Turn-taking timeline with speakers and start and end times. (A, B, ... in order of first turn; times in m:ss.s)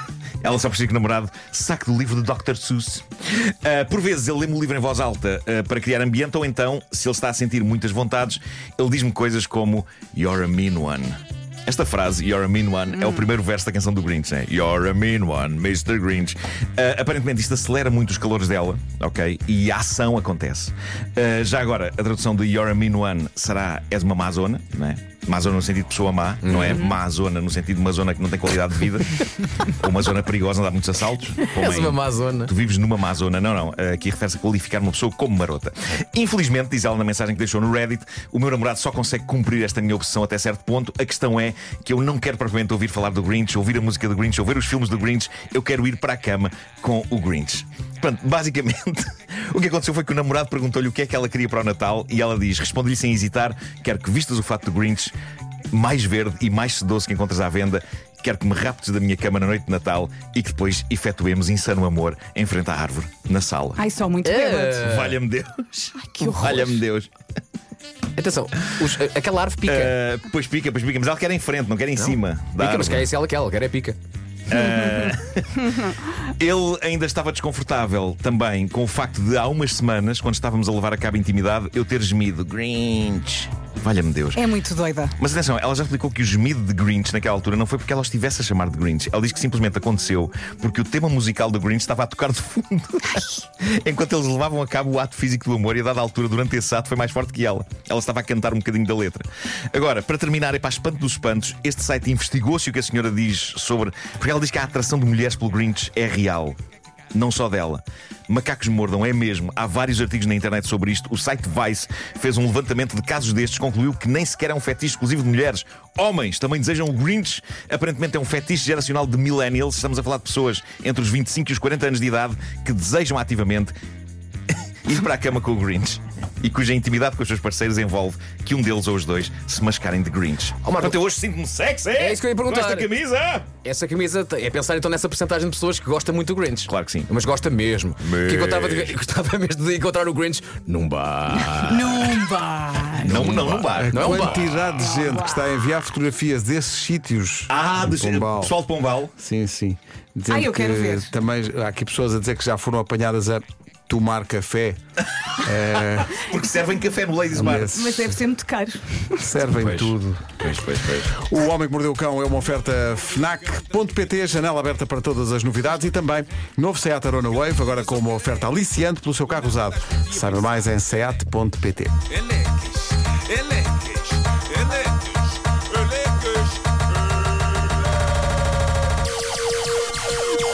0:00.4-0:55.1 A
0:26.4-0:27.0 B
0:31.5-0:32.5 B
0:55.7-1:03.8 A
1:03.8-1:04.8 C
1:04.2-1:05.2 B
1:04.8-1:07.1 A
1:06.0-1:06.7 C
1:08.2-1:09.9 B
1:09.6-1:13.1 A
1:12.0-1:14.0 B
1:14.5-1:24.5 A
1:24.3-1:25.2 C
1:25.2-1:46.6 A
1:47.1-2:03.7 A
2:04.8-2:13.5 A
2:10.6-2:11.0 B
2:12.0-2:12.9 B
2:13.6-2:22.2 B
2:16.6-2:17.1 A
2:18.0-2:19.0 A
2:21.4-2:23.4 C
2:23.0-2:24.4 A
2:23.0-2:24.6 B
2:23.7-2:28.6 D
2:24.6-2:25.4 C
2:27.5-2:29.1 A
2:29.2-2:34.8 D
2:30.3-2:31.1 C
2:35.4-2:36.2 D
2:36.1-2:37.9 A
2:37.3-2:38.2 D
2:37.5-2:39.3 C
2:39.2-2:40.4 D
2:39.4-2:41.1 B
2:41.0-2:51.9 D
2:42.4-2:44.5 E
2:47.2-2:51.1 E
2:52.1-2:57.7 E